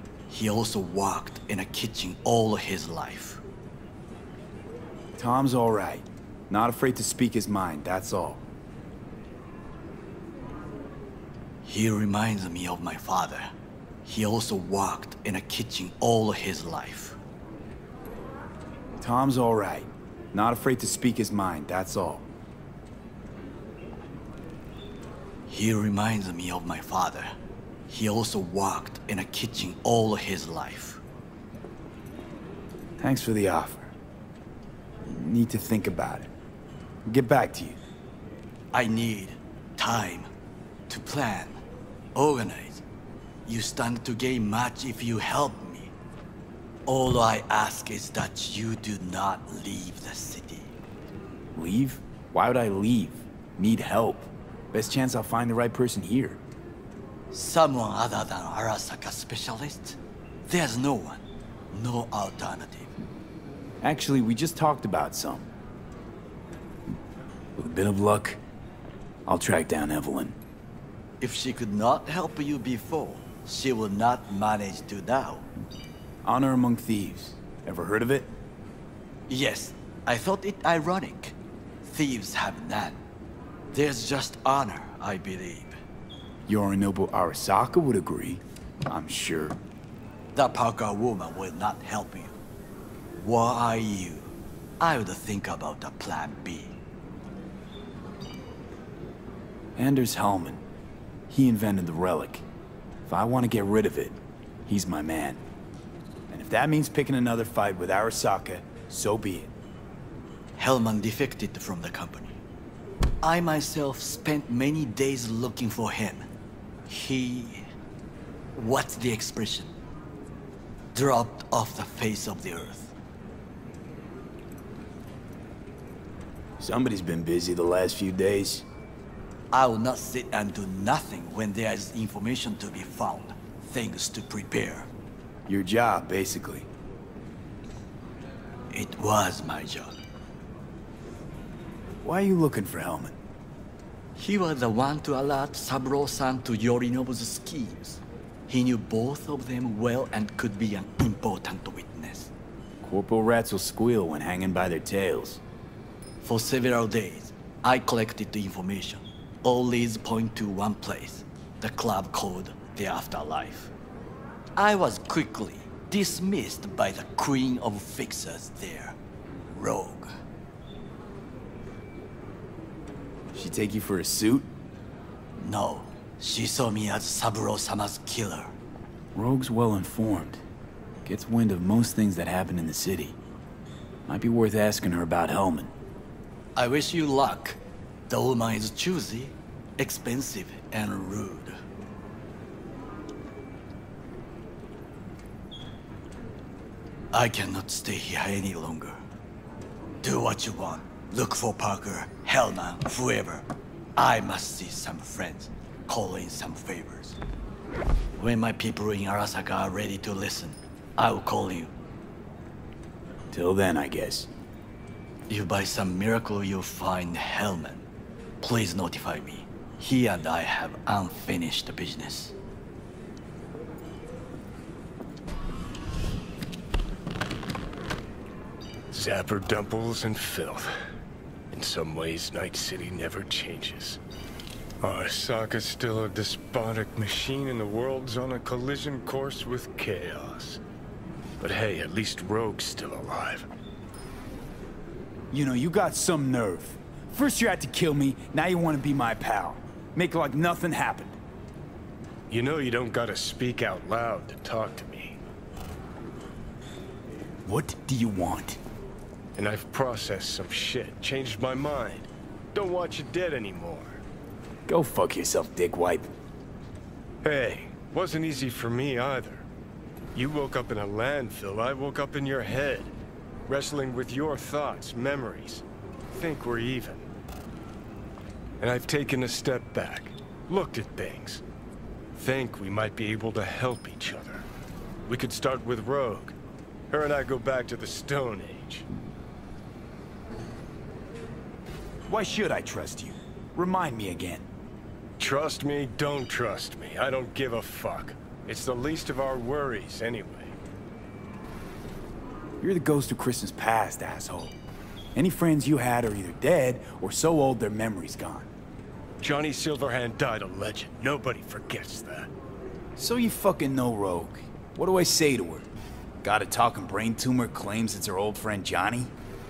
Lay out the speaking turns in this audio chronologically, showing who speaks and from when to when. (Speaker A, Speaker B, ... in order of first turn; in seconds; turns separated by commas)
Speaker A: 0.3-3.4, Speaker B: 5.2-8.4, Speaker A: 11.6-13.5, Speaker A: 14.0-17.2, Speaker B: 19.0-22.3, Speaker A: 25.5-27.3, Speaker A: 27.9-31.0, Speaker B: 33.0-33.9, Speaker B: 35.0-36.3, Speaker B: 37.1-37.8, Speaker A: 38.7-40.3, Speaker A: 40.9-41.6, Speaker A: 42.1-42.8, Speaker A: 43.5-45.9, Speaker A: 46.9-50.7, Speaker B: 51.5-56.4, Speaker A: 57.3-62.9, Speaker B: 63.8-65.5, Speaker B: 67.6-68.4, Speaker B: 69.3-70.3, Speaker A: 71.2-75.5, Speaker B: 76.2-78.3, Speaker A: 79.3-83.0, Speaker A: 83.7-85.8, Speaker B: 86.5-89.6, Speaker A: 90.3-92.3, Speaker A: 93.2-96.8, Speaker B: 99.8-100.6, Speaker B: 101.3-102.4, Speaker B: 103.1-105.4, Speaker B: 106.3-109.5, Speaker A: 110.6-112.4, Speaker A: 113.2-116.2, Speaker A: 116.9-117.6, Speaker A: 118.5-119.7, Speaker A: 120.9-122.9, Speaker B: 126.6-128.7, Speaker A: 129.5-134.9, Speaker B: 135.5-136.7, Speaker A: 138.7-140.0, Speaker B: 142.0-143.2, Speaker A: 144.2-152.3, Speaker B: 152.8-155.4, Speaker A: 156.2-163.7, Speaker A: 164.6-169.0, Speaker A: 169.5-170.1, Speaker B: 173.3-174.5, Speaker A: 175.4-178.5, Speaker B: 179.1-180.4, Speaker B: 181.1-183.2, Speaker B: 184.1-185.7, Speaker A: 186.6-191.6, Speaker A: 197.1-199.0, Speaker A: 200.0-207.2, Speaker A: 208.2-211.7, Speaker B: 213.3-214.3, Speaker A: 215.3-217.9, Speaker A: 218.4-222.3, Speaker C: 228.9-230.7, Speaker C: 231.5-234.0, Speaker C: 234.8-240.6, Speaker C: 241.4-243.5, Speaker B: 245.3-251.2, Speaker C: 252.3-255.2, Speaker B: 257.4-258.6, Speaker C: 259.4-264.0, Speaker B: 264.7-266.1, Speaker C: 267.2-269.4, Speaker C: 270.1-272.9, Speaker C: 273.5-277.1, Speaker C: 278.6-281.4, Speaker C: 282.1-284.5, Speaker C: 285.1-286.3, Speaker C: 286.9-288.8, Speaker B: 292.1-294.5, Speaker C: 295.2-300.6, Speaker B: 302.6-304.6, Speaker B: 305.1-308.5, Speaker C: 309.2-312.3, Speaker B: 313.0-315.7, Speaker B: 316.2-319.1